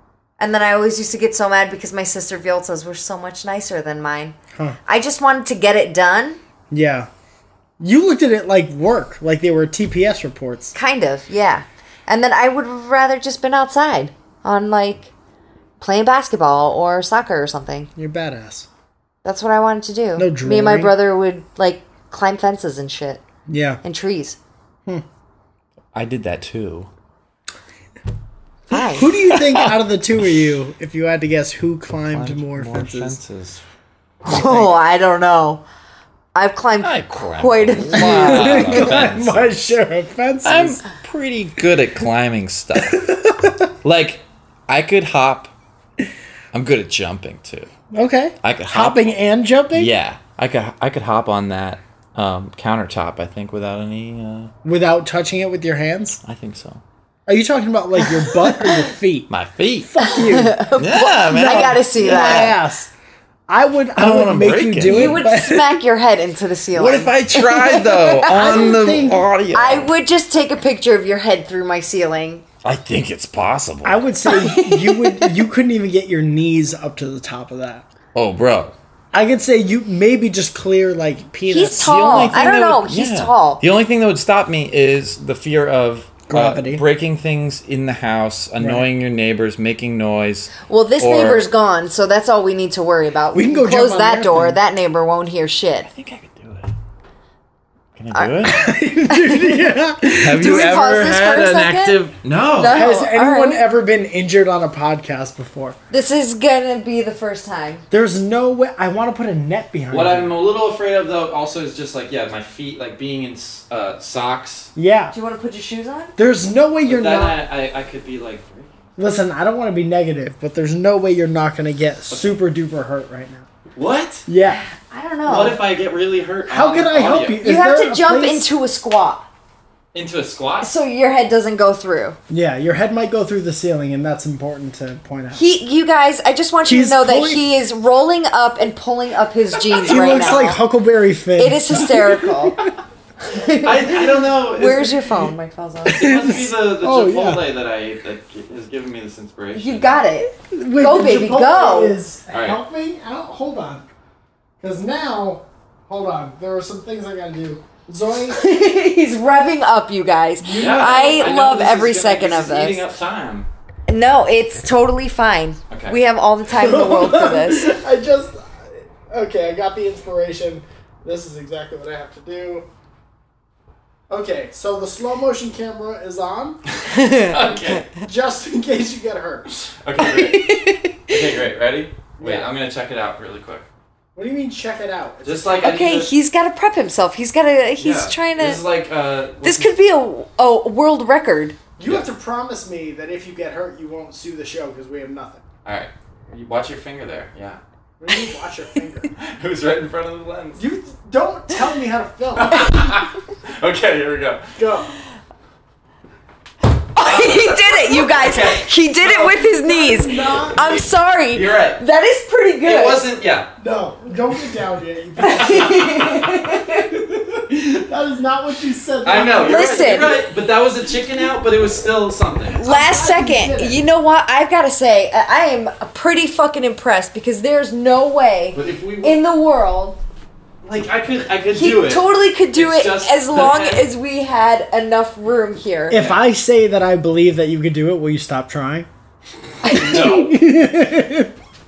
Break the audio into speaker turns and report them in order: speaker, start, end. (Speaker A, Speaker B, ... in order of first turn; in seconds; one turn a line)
Speaker A: 0.4-4.3
Speaker A: 4.9-6.4
Speaker B: 6.7-7.1
Speaker B: 7.8-10.8
Speaker A: 10.7-15.1
Speaker A: 15.8-17.9
Speaker B: 18.0-18.7
Speaker A: 19.2-23.2
Speaker B: 20.2-20.9
Speaker B: 23.5-23.8
Speaker A: 23.8-24.4
Speaker C: 25.9-26.9
Speaker A: 28.7-29.1
Speaker B: 28.9-33.2
Speaker C: 29.2-29.7
Speaker C: 32.1-33.6
Speaker A: 34.2-35.6
Speaker B: 34.3-34.8
Speaker A: 36.4-39.0
Speaker C: 36.8-39.8
Speaker B: 37.9-40.8
Speaker C: 40.4-43.1
Speaker B: 42.8-43.7
Speaker C: 43.8-45.5
Speaker C: 46.5-47.7
Speaker B: 47.9-49.9
Speaker C: 48.4-49.1
Speaker C: 49.7-54.5
Speaker B: 54.6-56.2
Speaker C: 56.2-56.8
Speaker B: 57.3-59.3
Speaker C: 59.3-59.9
Speaker B: 59.8-60.7
Speaker A: 60.0-62.5
Speaker C: 60.8-62.5
Speaker B: 61.3-62.9
Speaker B: 63.5-65.8
Speaker C: 64.0-65.2
Speaker A: 64.8-68.8
Speaker C: 66.8-69.9
Speaker B: 68.3-69.2
Speaker A: 69.5-72.4
Speaker C: 72.6-74.0
Speaker B: 73.8-77.9
Speaker A: 74.3-75.4
Speaker C: 78.2-78.7
Speaker B: 79.1-82.4
Speaker A: 81.5-83.6
Speaker C: 81.7-91.5
Speaker B: 86.3-86.8
Speaker B: 88.6-88.8
Speaker A: 90.7-95.9
Speaker B: 93.3-94.6
Speaker C: 95.9-96.7
Speaker C: 98.0-98.7
Speaker A: 98.1-99.7
Speaker B: 98.4-100.8
Speaker C: 100.1-102.8
Speaker A: 100.3-102.0
Speaker A: 102.6-103.6
Speaker B: 102.7-105.8
Speaker A: 105.9-107.8
Speaker B: 107.9-110.3
Speaker C: 109.9-114.7
Speaker B: 114.8-115.1
Speaker A: 115.1-116.1
Speaker B: 116.2-117.4
Speaker C: 116.9-118.7
Speaker B: 119.0-123.5
Speaker C: 122.1-122.3
Speaker C: 123.8-124.3
Speaker B: 124.3-124.6
Speaker A: 124.5-125.6
Speaker C: 125.2-127.4
Speaker B: 126.5-128.5
Speaker A: 127.4-129.3
Speaker C: 129.9-130.7
Speaker A: 130.6-132.2
Speaker B: 132.3-135.4
Speaker A: 135.3-140.6
Speaker B: 136.7-137.4
Speaker B: 139.7-142.7
Speaker A: 141.4-142.7
Speaker A: 143.2-146.2
Speaker C: 143.6-145.3
Speaker C: 145.9-150.0
Speaker B: 145.9-147.4
Speaker A: 149.5-152.0
Speaker B: 150.5-153.9
Speaker C: 152.3-152.6
Speaker B: 154.6-158.4
Speaker A: 158.3-162.8
Speaker B: 160.4-161.3
Speaker C: 160.6-163.5
Speaker A: 163.9-167.7
Speaker C: 165.7-166.0
Speaker B: 166.5-172.7
Speaker B: 174.1-176.6
Speaker C: 176.7-177.9
Speaker A: 176.9-177.4
Speaker B: 177.9-179.5
Speaker C: 179.5-183.7
Speaker A: 180.0-181.1
Speaker B: 182.2-182.5
Speaker B: 184.2-185.5
Speaker C: 185.2-186.1
Speaker A: 185.6-188.6
Speaker C: 187.8-189.7
Speaker A: 189.4-191.6
Speaker B: 191.8-195.4
Speaker C: 195.7-197.6
Speaker B: 198.0-199.1
Speaker C: 199.2-200.6
Speaker B: 200.6-202.7
Speaker C: 202.4-204.5
Speaker B: 204.6-204.9
Speaker A: 206.9-213.1
Speaker C: 207.0-208.7
Speaker B: 209.0-210.7
Speaker C: 211.3-211.8
Speaker C: 212.6-213.5
Speaker B: 213.6-216.2
Speaker A: 215.2-216.9
Speaker C: 215.4-217.7
Speaker B: 217.5-220.0
Speaker C: 219.0-222.6
Speaker A: 219.4-220.2
Speaker B: 222.6-223.8
Speaker A: 222.6-230.0
Speaker C: 228.5-229.2
Speaker C: 230.6-233.9
Speaker A: 231.5-236.0
Speaker C: 235.9-236.2
Speaker B: 235.9-238.9
Speaker A: 239.6-240.3
Speaker C: 239.6-240.4
Speaker B: 239.9-241.3